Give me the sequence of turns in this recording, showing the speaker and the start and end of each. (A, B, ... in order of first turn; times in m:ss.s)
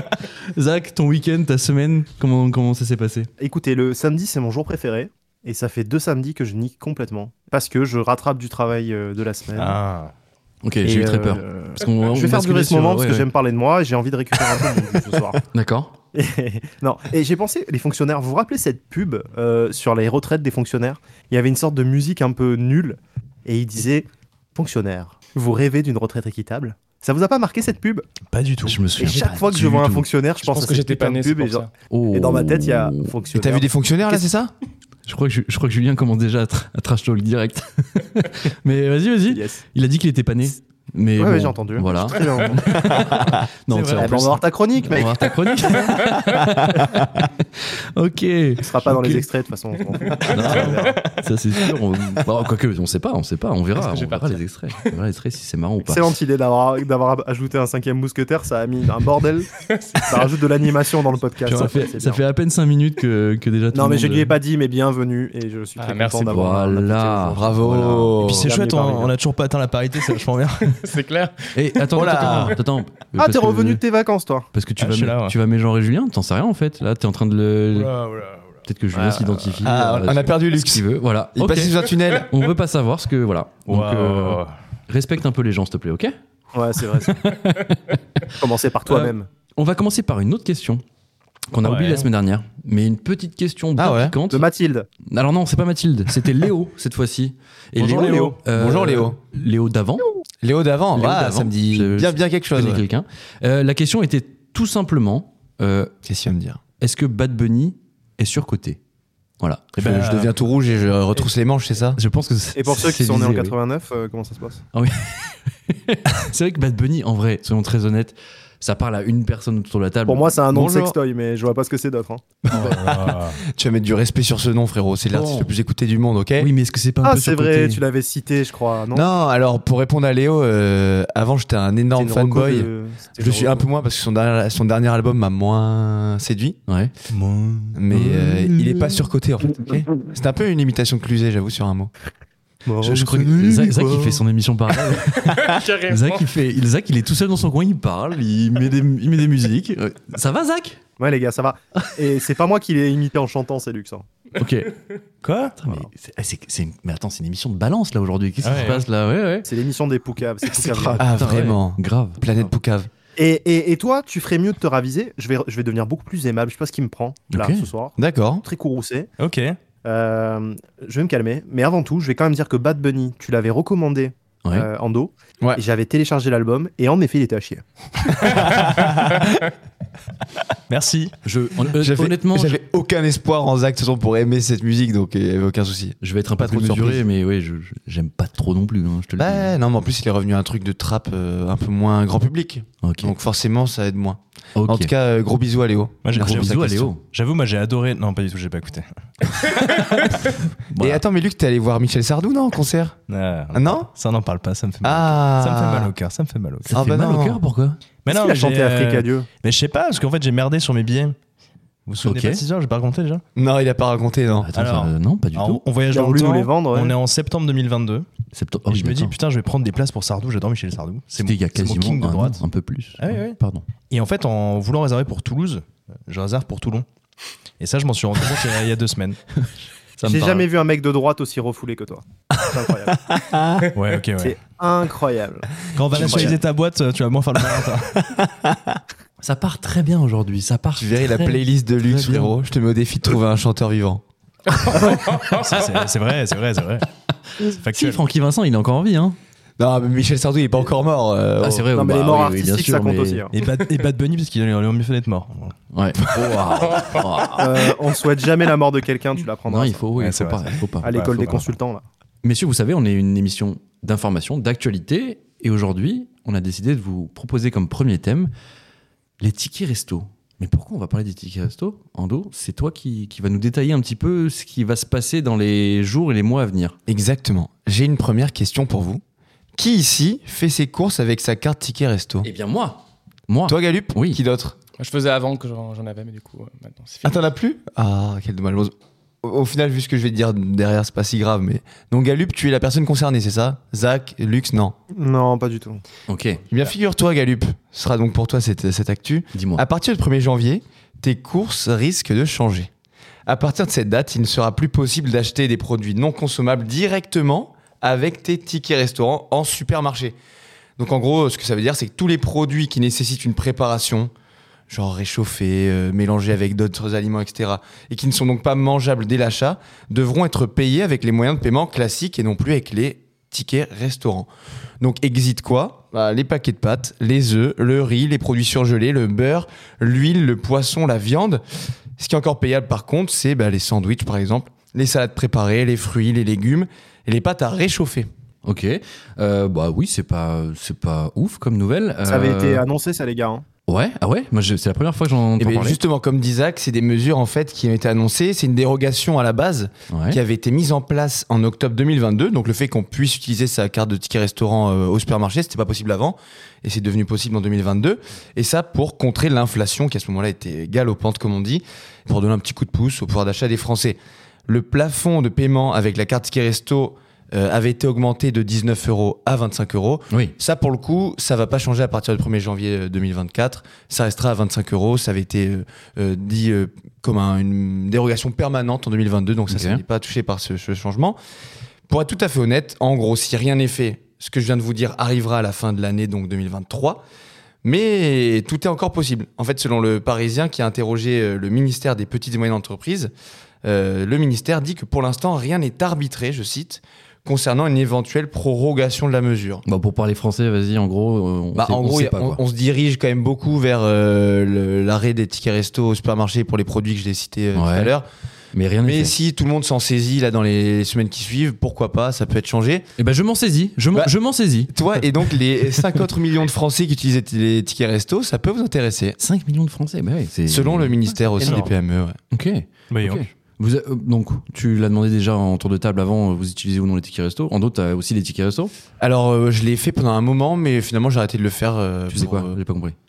0:00.4-0:03.3 A
0:03.4-0:09.8 B
0:09.6-0:10.1 C
0:10.6-0:13.3 A
0:10.8-0:15.4 B
0:15.5-0:16.0 A
0:16.1-0:28.0 B
0:28.3-0:28.8 C
0:28.7-0:30.1 A
0:29.0-0:34.2 B
0:30.4-0:31.7 D
0:31.9-0:33.1 A
0:33.3-0:34.5 E
0:35.1-0:49.3 A
0:39.3-0:39.6 B
0:41.2-0:43.4 B
0:43.1-0:43.4 E
0:43.7-0:44.2 C
0:44.0-0:45.3 B
0:46.4-0:46.9 E
0:48.6-0:51.0 B
0:50.1-0:56.1 A
0:50.2-0:51.0 D
0:50.3-0:51.1 C
0:53.8-0:54.4 D
0:55.8-0:59.5 B
0:59.6-1:00.2 D
1:00.0-1:02.2 B
1:01.4-1:04.4 A
1:03.7-1:07.5 B
1:05.8-1:06.5 D
1:06.3-1:08.2 A
1:07.3-1:08.5 E
1:08.2-1:10.8 C
1:08.4-1:09.1 B
1:10.6-1:12.0 D
1:11.5-1:13.8 A
1:11.9-1:12.6 E
1:12.0-1:12.6 C
1:13.2-1:14.5 B
1:14.5-1:17.9 A
1:14.8-1:15.4 C
1:17.7-1:18.6 D
1:18.7-1:26.1 A
1:18.9-1:19.7 B
1:19.6-1:22.3 E
1:23.7-1:24.5 C
1:26.5-1:27.2 B
1:27.0-1:28.3 A
1:28.2-1:29.3 B
1:28.9-1:30.8 A
1:31.5-1:34.5 A
1:31.6-1:32.1 C
1:33.8-1:34.2 E
1:34.3-1:34.9 B
1:35.0-1:40.1 A
1:37.8-1:38.4 B
1:38.0-1:39.2 E
1:40.4-1:42.8 E
1:40.9-1:45.9 A
1:46.0-1:46.6 E
1:46.8-1:48.8 A
1:49.4-1:50.3 A
1:49.8-1:52.0 E
1:49.8-1:50.2 C
1:52.0-1:53.6 A
1:52.6-1:54.6 B
1:54.7-2:00.4 A
2:00.1-2:02.2 B
2:00.5-2:01.0 E
2:02.4-2:06.5 E
2:02.5-2:03.4 C
2:05.1-2:05.5 A
2:06.4-2:07.8 A
2:07.0-2:09.1 B
2:08.9-2:16.6 E
2:12.0-2:13.7 B
2:17.1-2:18.1 C
2:17.7-2:21.9 E
2:18.0-2:18.2 A
2:22.6-2:24.0 B
2:22.8-2:30.8 A
2:25.2-2:26.3 D
2:31.0-2:34.1 B
2:34.4-2:34.8 A
2:35.2-2:35.6 C
2:35.6-2:39.5 A
2:38.4-2:38.8 C
2:39.4-2:41.1 B
2:40.5-2:42.2 A
2:41.0-2:42.9 E
2:43.2-2:49.1 B
2:47.3-2:47.7 A
2:48.0-2:48.4 E
2:49.2-2:49.6 C
2:49.8-2:57.6 B
2:58.3-2:59.4 C
3:00.7-3:01.2 C
3:01.2-3:02.6 A
3:01.8-3:07.0 E
3:06.0-3:09.5 A
3:09.2-3:16.9 E
3:12.8-3:13.1 A
3:14.6-3:14.9 A
3:16.0-3:19.8 C
3:16.1-3:17.0 A
3:20.8-3:23.0 E
3:23.1-3:26.7 C
3:23.5-3:23.9 E
3:24.8-3:25.9 E
3:26.7-3:27.8 A
3:26.7-3:27.4 E
3:28.1-3:31.2 C
3:28.1-3:29.3 B
3:31.9-3:33.2 C
3:32.0-3:32.4 A
3:33.4-3:34.5 E
3:34.4-3:35.6 A
3:34.6-3:38.1 C
3:35.9-3:37.0 B
3:38.3-3:39.1 A
3:38.7-3:42.4 C
3:41.2-3:43.6 A
3:43.0-3:43.4 C
3:43.9-3:46.9 C
3:47.6-3:49.2 C
3:50.0-3:50.5 A
3:50.0-3:53.1 B
3:52.9-3:53.7 E
3:53.7-3:54.4 C
3:54.2-3:56.4 B
3:55.7-3:58.0 C
3:55.9-3:56.4 E
3:58.0-3:58.8 E
3:59.2-4:02.3 A
4:00.8-4:04.0 E
4:04.7-4:06.9 C
4:07.4-4:09.2 A
4:07.4-4:08.0 C
4:09.6-4:11.8 E
4:11.4-4:13.3 A
4:11.7-4:13.3 B
4:13.3-4:15.6 C
4:15.7-4:17.8 A
4:17.4-4:19.8 B
4:19.5-4:21.0 A
4:20.0-4:21.5 C
4:20.8-4:21.8 B
4:22.2-4:28.3 A
4:29.2-4:36.8 A
4:36.9-4:39.0 E
4:39.6-4:42.3 E
4:42.2-4:44.2 A
4:43.5-4:44.6 E
4:44.8-4:47.2 D
4:47.0-4:54.8 E
4:54.9-4:55.8 B
4:56.1-4:56.5 A
4:56.5-5:02.7 E
4:59.3-4:59.6 A
5:03.3-5:10.2 E
5:10.8-5:14.1 E
5:14.7-5:31.4 E
5:32.0-5:38.1 E
5:38.4-5:42.6 A
5:42.0-5:43.4 B
5:43.7-5:45.8 A
5:45.4-6:21.2 E
5:49.9-5:50.2 A
6:19.5-6:19.8 A
6:21.9-6:27.0 E
6:27.6-6:33.1 E
6:33.6-6:39.6 E
6:39.7-6:42.4 A
6:41.6-6:48.1 E
6:47.6-6:47.9 A
6:48.5-6:49.2 A
6:48.8-6:52.9 E
6:53.0-6:54.7 A
6:54.7-6:59.2 E
6:59.2-7:01.2 A
7:00.5-7:02.2 E
7:01.4-7:01.7 C
7:02.3-7:08.7 A
7:02.9-7:03.3 C
7:09.0-7:12.6 E
7:12.1-7:13.0 A